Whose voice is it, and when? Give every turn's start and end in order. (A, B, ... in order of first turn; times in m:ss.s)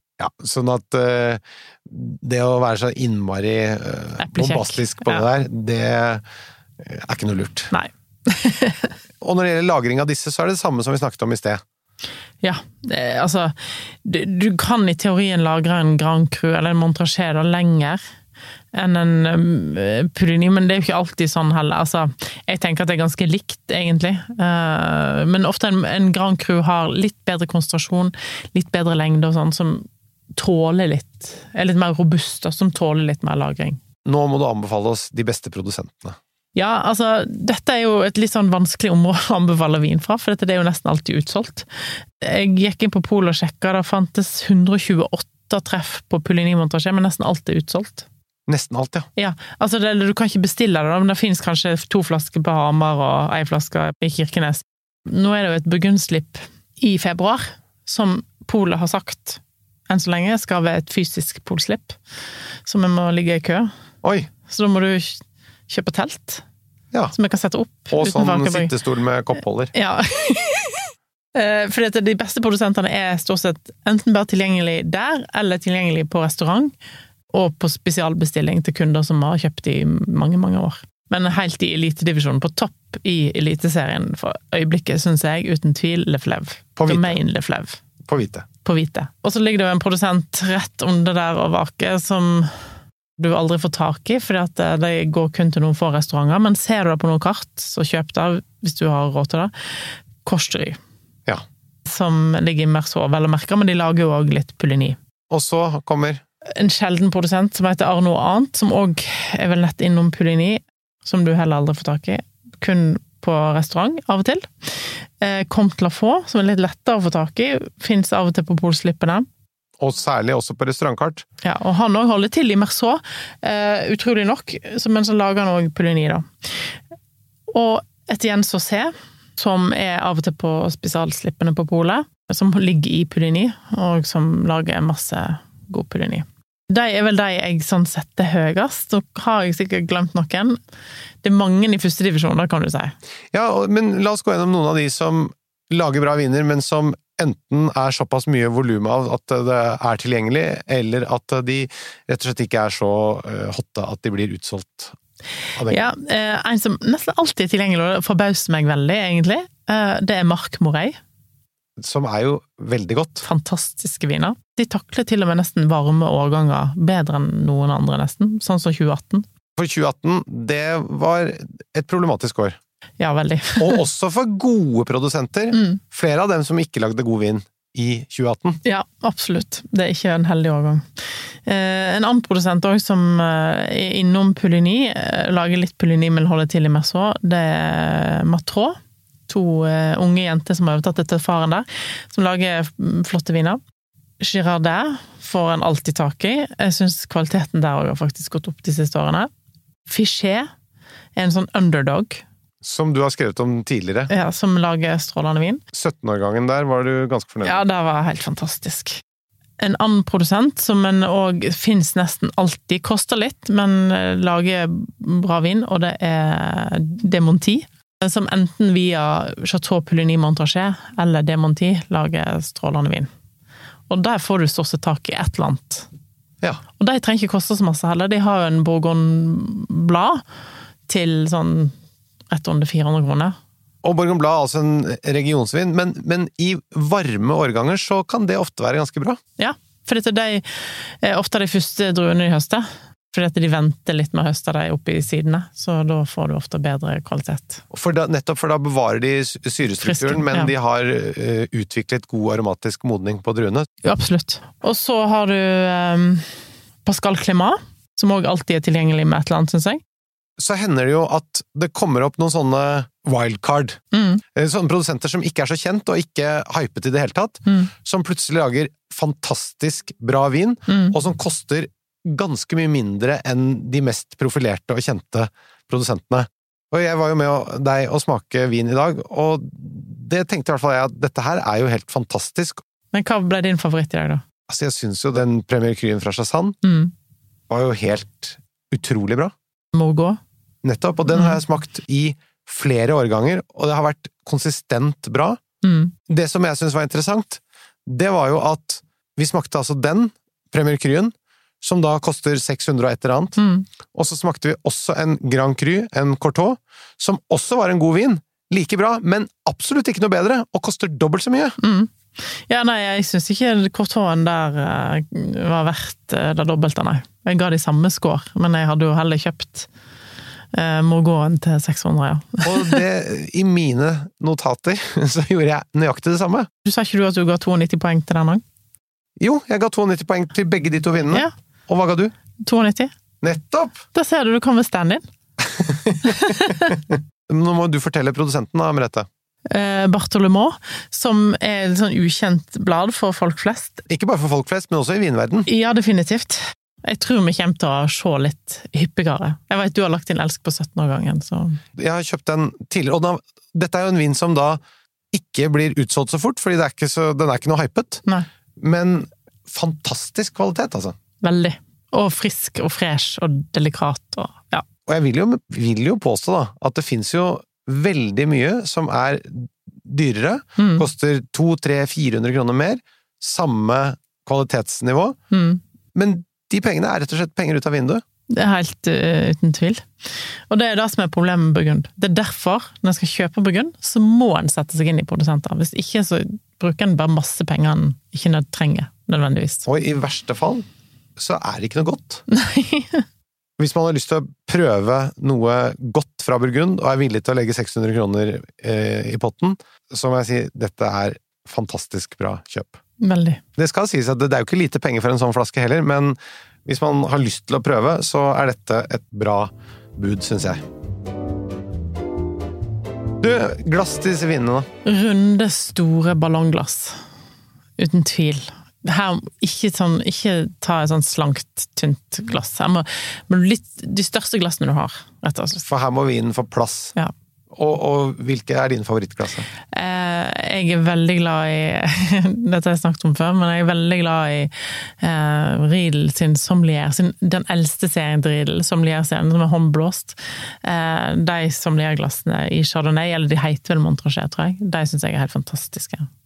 0:00.2-0:06.2 A
0:04.2-0:05.2 B
0:06.8-0:07.7 A
0:07.7-0:08.9 B
0:09.2-0:11.6 A
0:12.4-0:18.0 B
0:18.7-0:33.8 B
0:34.0-0:36.2 A
0:36.5-0:41.7 B
0:42.2-0:48.0 B
0:48.5-0:49.1 A
0:49.2-1:02.0 B
1:02.6-1:03.7 B
1:04.0-1:04.3 A
1:04.5-1:06.4 B
1:07.1-1:08.7 B
1:07.9-1:09.7 A
1:09.7-1:16.7 B
1:17.3-1:27.8 B
1:26.8-1:27.2 A
1:28.1-1:28.4 A
1:28.6-1:32.5 B
1:33.2-1:39.5 B
1:40.2-1:40.8 B
1:41.8-1:45.0 B
1:45.3-1:46.2 A
1:46.5-1:59.3 B
1:59.8-2:01.2 A
2:01.4-2:06.7 B
2:07.5-2:20.6 B
2:21.2-2:23.0 B
2:23.3-2:34.9 A
2:35.5-2:35.8 A
2:35.7-2:41.0 B
2:41.8-2:43.2 A
2:43.2-2:49.2 B
2:49.6-2:52.6 A
2:53.0-2:53.8 B
2:53.6-2:58.6 A
2:55.5-2:55.8 B
2:58.6-3:00.8 B
3:01.4-3:13.6 B
3:14.2-3:19.3 B
3:19.9-3:20.5 B
3:21.2-3:22.2 B
3:22.6-3:24.1 A
3:24.1-3:25.6 B
3:25.7-3:27.6 A
3:27.4-3:29.0 B
3:29.6-3:43.1 B
3:43.9-3:45.9 B
3:46.8-3:50.2 B
3:50.9-3:51.7 B
3:52.3-3:53.4 B
3:53.8-3:59.2 A
3:59.4-4:07.6 B
4:07.7-4:13.7 A
4:09.8-4:10.5 B
4:13.8-4:16.3 B
4:16.8-4:19.8 B
4:20.4-4:23.8 A
4:23.9-4:24.2 B
4:24.3-4:42.6 A
4:27.4-4:27.7 B
4:30.7-4:30.9 B
4:42.9-4:44.2 B
4:44.5-4:46.6 A
4:46.6-4:46.9 B
4:47.5-4:49.3 A
4:49.7-4:50.2 B
4:50.6-4:55.4 A
4:55.6-4:55.9 B
4:56.1-5:03.4 A
5:03.4-5:03.7 B
5:03.9-5:11.6 A
5:11.6-5:19.7 B
5:20.5-5:22.8 B
5:22.4-5:26.5 A
5:26.6-5:28.4 B
5:29.2-5:32.1 A
5:32.4-5:32.9 B
5:33.2-5:33.8 A
5:33.9-5:35.0 B
5:35.6-5:39.1 A
5:36.0-5:36.7 B
5:39.5-5:43.8 B
5:43.9-5:45.5 A
5:45.4-5:51.6 B
5:51.8-5:54.6 A
5:55.1-5:58.0 A
5:58.6-6:01.0 A
6:01.2-6:04.6 B
6:04.9-6:15.2 A
6:10.6-6:10.8 B
6:15.3-6:15.6 B
6:15.9-6:18.0 A
6:18.3-6:29.6 B
6:29.6-6:30.6 A
6:31.2-6:32.2 A
6:32.3-6:33.0 B
6:33.6-6:42.8 A
6:43.0-6:43.4 B
6:43.6-6:50.6 A
6:53.2-6:54.7 A
6:54.8-6:57.0 B
6:57.8-7:05.6 B
7:05.7-7:06.9 A
7:07.5-7:09.5 A
7:09.7-7:26.1 B